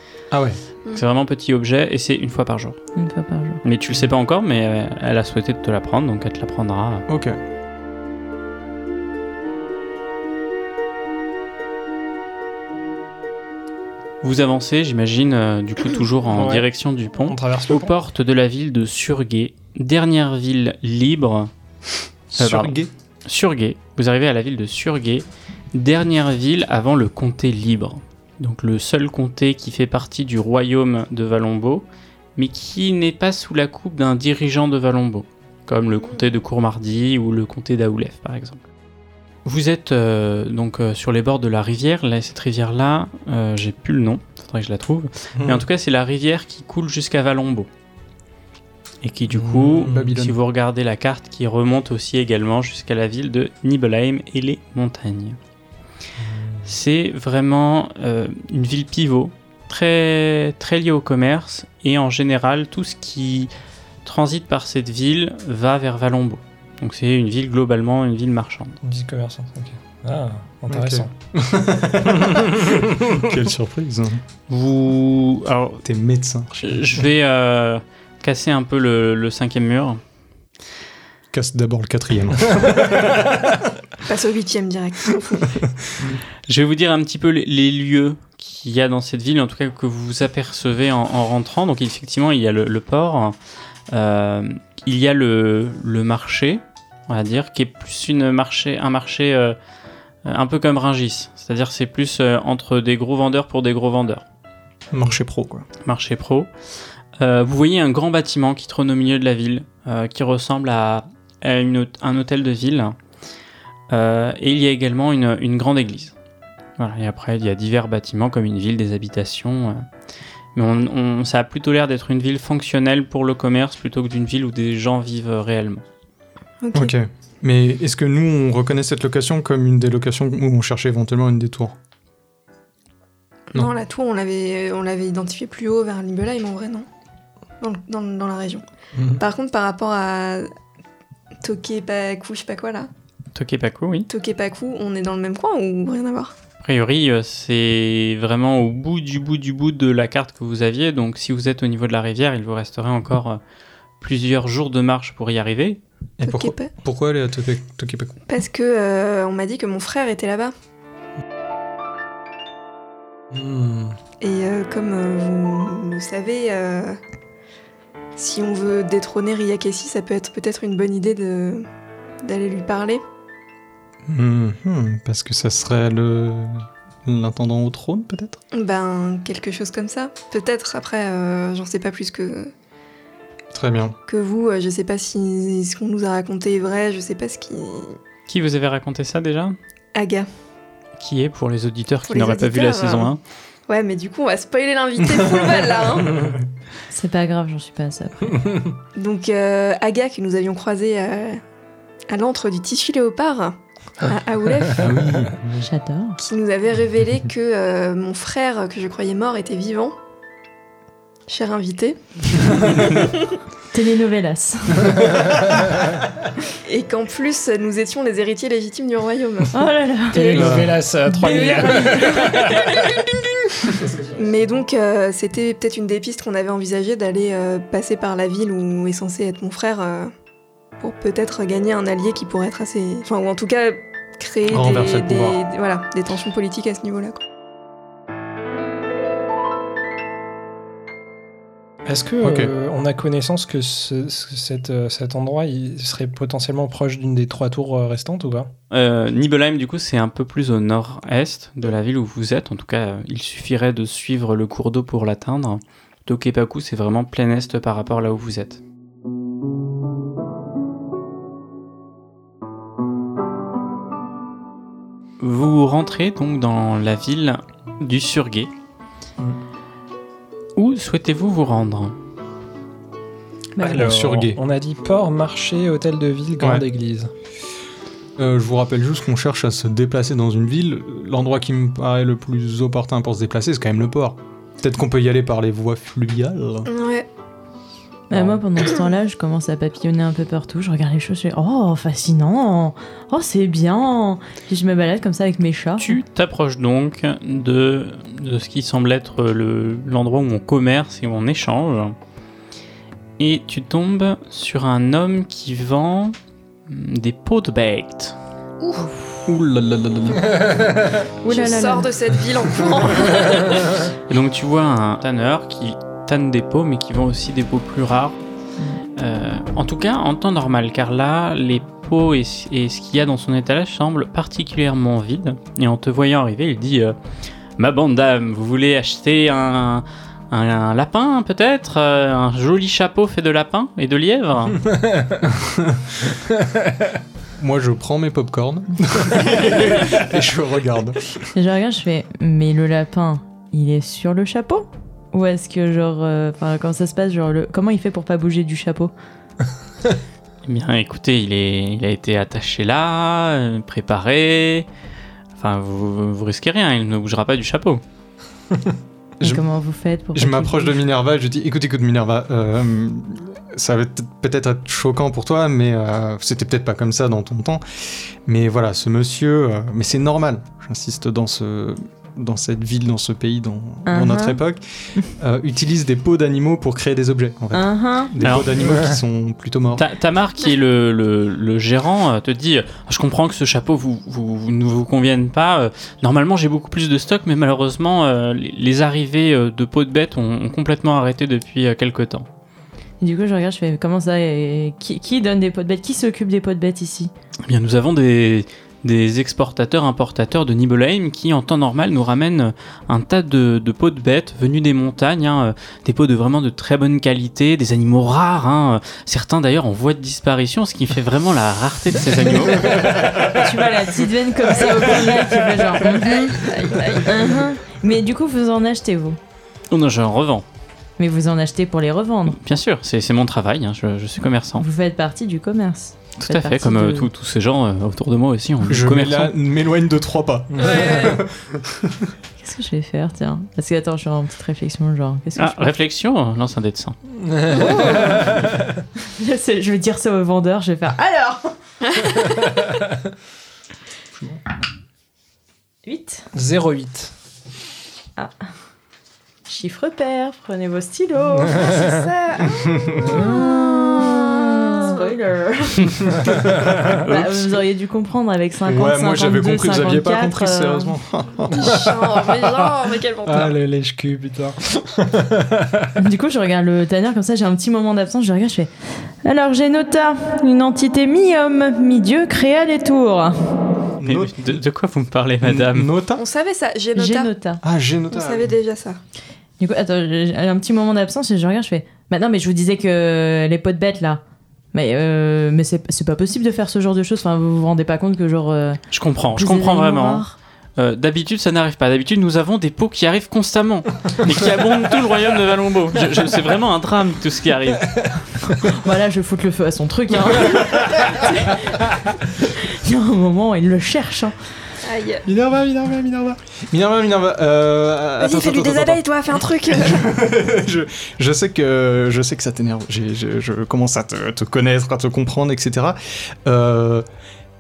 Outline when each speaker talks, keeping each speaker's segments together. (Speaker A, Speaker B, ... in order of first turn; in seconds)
Speaker A: 0.3-0.6, 7.1-7.4, 22.3-22.9, 49.8-50.4, 70.7-74.2, 75.8-76.8, 81.3-83.6, 85.6-86.2, 104.9-105.7, 126.7-131.8, 156.2-158.2, 174.1-178.4, 183.5-183.9, 204.8-205.7, 220.3-220.8, 234.5-235.4, 242.2-242.5, 273.6-274.4, 278.2-286.7, 288.1-288.4, 309.3-310.4, 335.2-336.2, 337.4-341.1, 360.1-379.9, 428.7-432.0, 452.6-453.1, 456.3-457.2, 458.7-461.8, 474.0-474.6, 475.4-476.2, 477.6-478.5, 505.3-509.1, 509.7-517.0
Speaker B: 0.9-2.8, 3.6-7.0, 14.2-21.5, 22.4-22.8, 23.3-31.9, 32.4-38.6, 39.5-47.7, 49.0-55.4, 56.7-63.5, 64.0-68.8, 74.5-75.8, 76.6-80.0, 86.5-93.3, 93.9-99.6, 100.3-104.2, 105.8-106.5, 107.2-113.0, 113.9-116.1, 116.8-119.8, 120.5-125.8, 143.3-144.1, 146.6-153.4, 154.0-155.8, 188.3-189.6, 191.0-193.2, 248.7-258.6, 265.2-268.5, 270.6-271.9, 295.8-302.0, 303.2-306.1, 306.7-308.2, 314.1-318.2, 319.0-326.9, 327.6-334.6, 350.4-354.7, 355.4-357.8, 378.2-378.5, 379.8-392.3, 397.5-412.9, 419.7-420.4, 422.3-424.7, 426.2-429.3, 435.4-437.0, 474.0-475.9, 488.9-490.2, 490.8-498.1
Speaker C: 3.0-3.6, 196.9-198.7, 205.6-206.2, 213.7-215.3, 219.5-222.4, 273.6-273.9, 288.1-296.0, 311.2-311.9, 341.3-348.9, 359.2-360.9, 373.9-374.4, 377.5-378.1, 393.0-397.1, 412.7-419.2, 421.0-422.4, 424.6-427.1, 432.4-435.7, 439.2-441.6, 445.9-446.3, 449.5-460.9, 466.0-468.7, 469.2-473.4, 477.0-477.6, 479.6-484.2, 484.7-488.8, 489.3-490.4, 498.5-504.4
Speaker D: 16.3-16.7, 17.2-17.9, 45.4-45.6, 49.4-50.1, 56.3-56.6, 68.8-71.1, 72.1-72.9, 163.3-164.0, 220.1-223.1, 223.7-224.1, 241.8-248.5, 273.6-277.1, 334.7-335.1, 336.4-336.9, 378.6-379.0, 430.5-431.0, 437.2-438.8, 446.3-447.1, 451.6-451.9, 453.1-453.4, 461.5-462.7, 463.2-465.9
Speaker E: 35.9-36.3, 84.0-85.6, 126.6-126.9, 133.5-136.9, 137.6-138.7, 139.2-140.5, 141.4-142.9, 144.1-146.3, 156.2-156.7, 158.3-160.5, 164.2-167.0, 168.2-171.7, 172.2-173.0, 178.5-182.5, 184.1-188.0, 189.9-190.3, 192.1-193.1, 193.7-196.3, 198.9-201.4, 202.1-204.9, 206.2-210.0, 211.3-213.4, 216.7-220.6, 221.2-223.0, 224.2-230.1, 230.8-237.2, 286.7-287.1, 308.6-308.9, 311.3-313.8, 414.5-415.2, 416.0-417.2, 430.6-431.2, 437.5-438.3, 441.8-442.3, 452.4-454.9, 461.5-463.6, 476.2-477.3, 478.1-479.0, 504.8-505.2, 508.2-510.1